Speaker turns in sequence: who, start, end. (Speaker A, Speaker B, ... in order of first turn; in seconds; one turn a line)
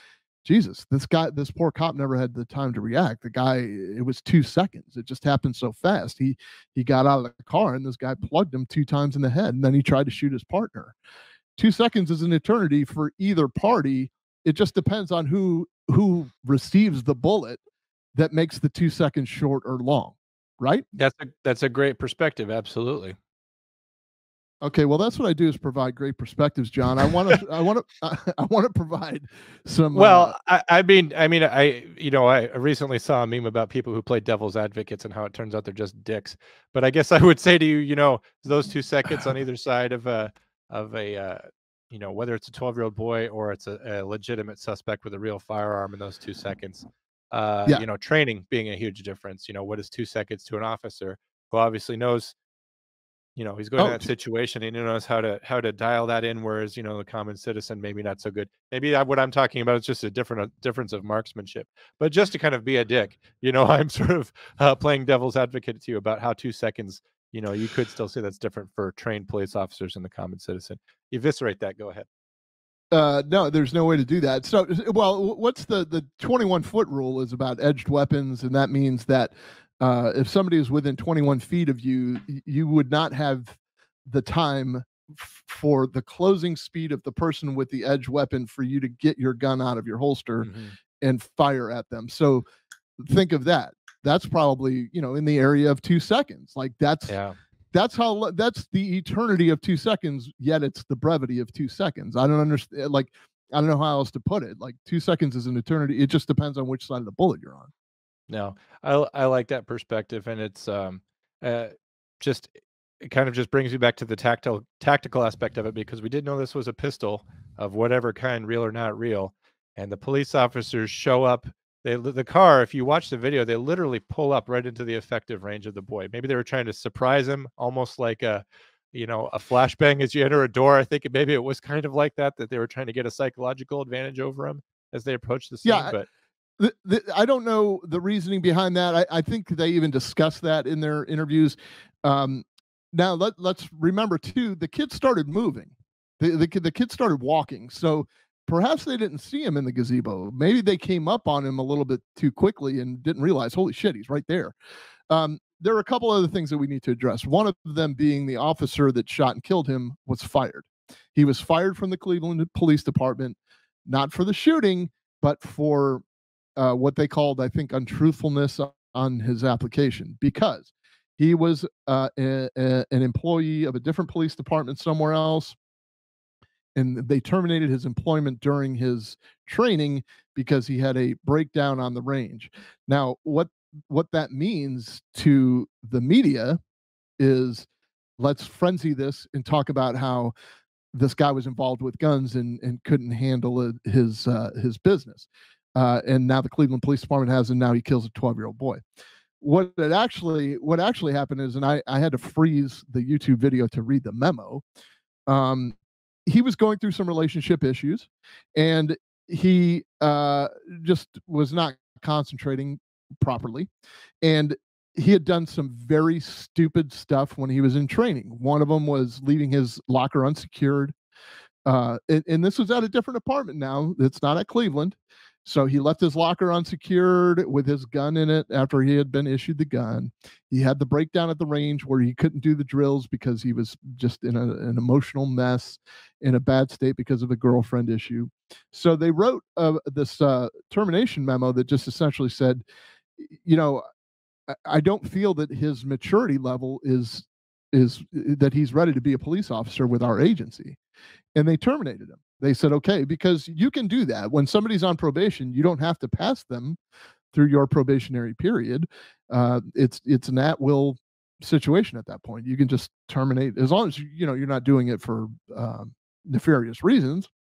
Speaker A: 0.4-10.9
Speaker A: 11.6-17.6
Speaker A: 18.1-20.9
Speaker B: 21.0-23.1
Speaker A: 24.6-30.3
Speaker B: 29.9-52.3
Speaker B: 53.4-72.1
Speaker A: 53.8-54.1
Speaker A: 72.9-92.5
Speaker B: 90.4-90.8
Speaker A: 93.0-97.2
Speaker B: 97.1-97.4
Speaker A: 97.7-107.7
Speaker B: 108.3-136.1
Speaker A: 135.6-135.9
Speaker A: 136.6-154.5
Speaker A: 155.1-166.0
Speaker A: 166.6-175.6
Speaker A: 176.7-186.6
Speaker A: 187.2-190.3
Speaker A: 190.9-198.8
Speaker A: 199.4-204.6
Speaker A: 205.3-213.7
Speaker A: 214.2-220.9
Speaker A: 221.7-242.6
Speaker A: 243.2-243.8
Speaker A: 244.5-250.8
Speaker A: 251.3-256.8
Speaker A: 257.3-267.3